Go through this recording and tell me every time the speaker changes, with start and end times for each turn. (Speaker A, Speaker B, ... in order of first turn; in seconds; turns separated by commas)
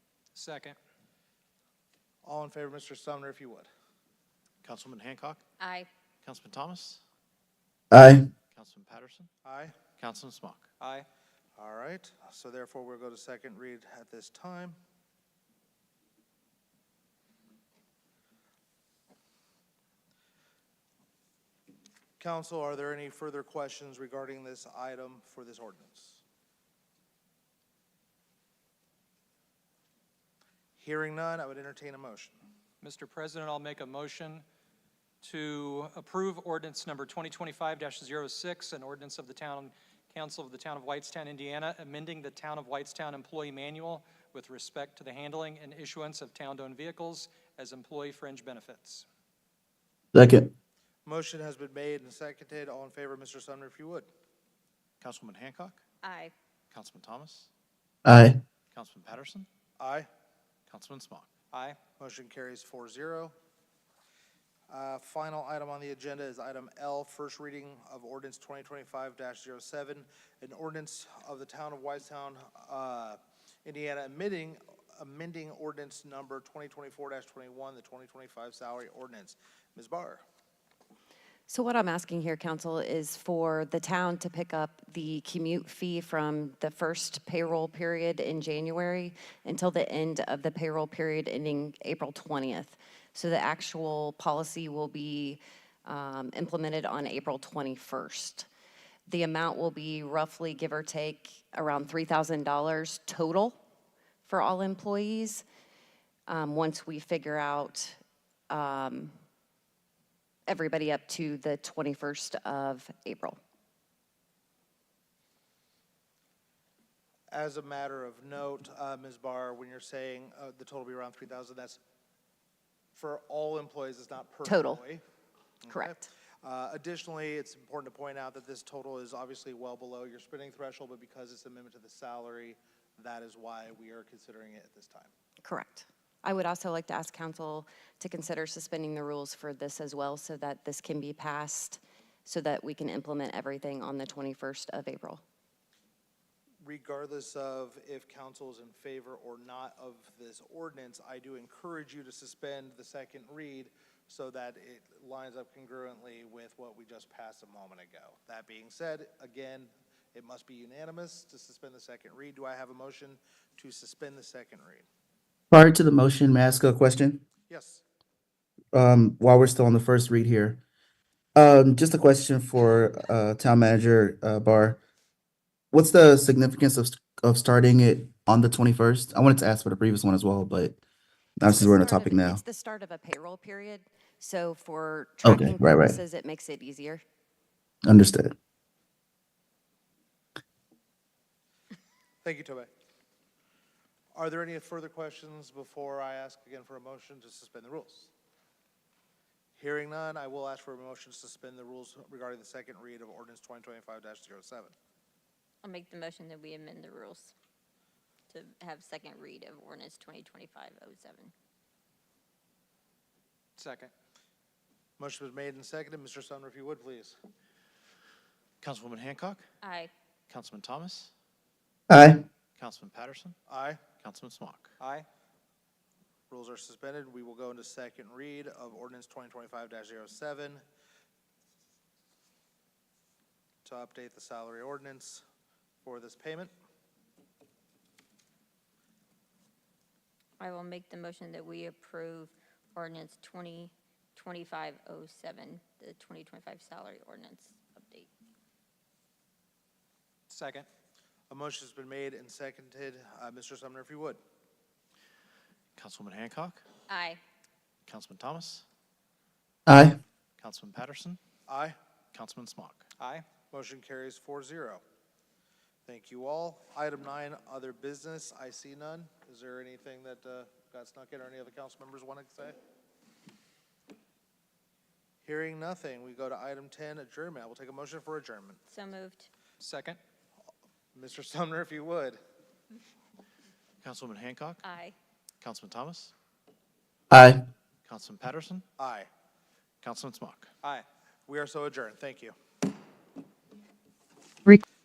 Speaker A: 0.3-0.8, Speaker B: 2.2-3.7, Speaker C: 4.6-5.4, Speaker D: 5.6-5.9, Speaker C: 6.2-7.0, Speaker E: 7.9-8.3, Speaker C: 8.5-9.3, Speaker B: 9.4-9.7, Speaker C: 10.0-10.7, Speaker A: 10.8-11.1, Speaker B: 11.6-14.8, Speaker B: 22.2-26.2, Speaker B: 30.8-32.4, Speaker A: 32.8-34.4, Speaker A: 35.2-49.0, Speaker E: 50.1-50.5, Speaker B: 51.0-54.1, Speaker C: 55.0-55.8, Speaker D: 56.0-56.3, Speaker C: 56.7-57.5, Speaker E: 58.0-58.4, Speaker C: 58.7-59.5, Speaker B: 59.8-60.1, Speaker C: 60.7-61.3, Speaker A: 61.5-61.8, Speaker B: 62.0-63.3, Speaker B: 64.7-80.2, Speaker F: 81.5-98.5, Speaker F: 99.1-103.6, Speaker F: 104.2-105.4, Speaker F: 106.3-108.0, Speaker F: 108.5-109.1, Speaker F: 110.5-113.4, Speaker B: 117.3-121.8, Speaker B: 122.9-125.0, Speaker F: 124.4-124.8, Speaker B: 125.6-135.1, Speaker F: 125.7-126.1, Speaker F: 135.4-145.2, Speaker B: 146.6-164.8, Speaker E: 165.5-167.2, Speaker B: 167.5-167.8, Speaker E: 168.7-170.6, Speaker E: 171.3-174.8, Speaker E: 175.7-180.8, Speaker E: 181.4-182.4, Speaker F: 181.4-187.0, Speaker E: 185.2-186.0, Speaker E: 187.8-188.3, Speaker B: 192.2-192.7, Speaker B: 194.1-198.1, Speaker B: 199.6-204.7, Speaker D: 205.6-207.3, Speaker D: 208.3-211.3, Speaker A: 213.6-213.9, Speaker B: 215.0-217.2, Speaker C: 218.6-219.4, Speaker D: 219.6-219.9, Speaker C: 220.3-221.1, Speaker E: 221.9-222.2, Speaker C: 222.6-223.3, Speaker B: 223.5-223.8, Speaker C: 224.0-224.7, Speaker A: 224.8-225.1, Speaker B: 226.3-230.6, Speaker B: 233.6-235.2, Speaker B: 235.8-236.5, Speaker D: 240.4-248.1, Speaker A: 250.3-250.7, Speaker B: 251.3-254.2, Speaker C: 255.8-256.6, Speaker D: 256.9-257.2, Speaker C: 257.9-258.6, Speaker E: 259.7-260.0, Speaker C: 260.4-261.2, Speaker B: 261.5-261.8, Speaker C: 262.1-262.9, Speaker A: 263.0-263.3, Speaker B: 263.5-264.8, Speaker B: 265.9-272.6, Speaker B: 275.2-278.6, Speaker D: 278.7-279.3, Speaker A: 279.6-280.0, Speaker B: 280.9-282.2, Speaker C: 283.8-284.6, Speaker D: 284.6-284.9, Speaker C: 285.4-286.1, Speaker E: 287.1-287.4, Speaker C: 287.8-288.6, Speaker B: 288.8-289.1, Speaker C: 289.8-290.5, Speaker B: 290.6-292.3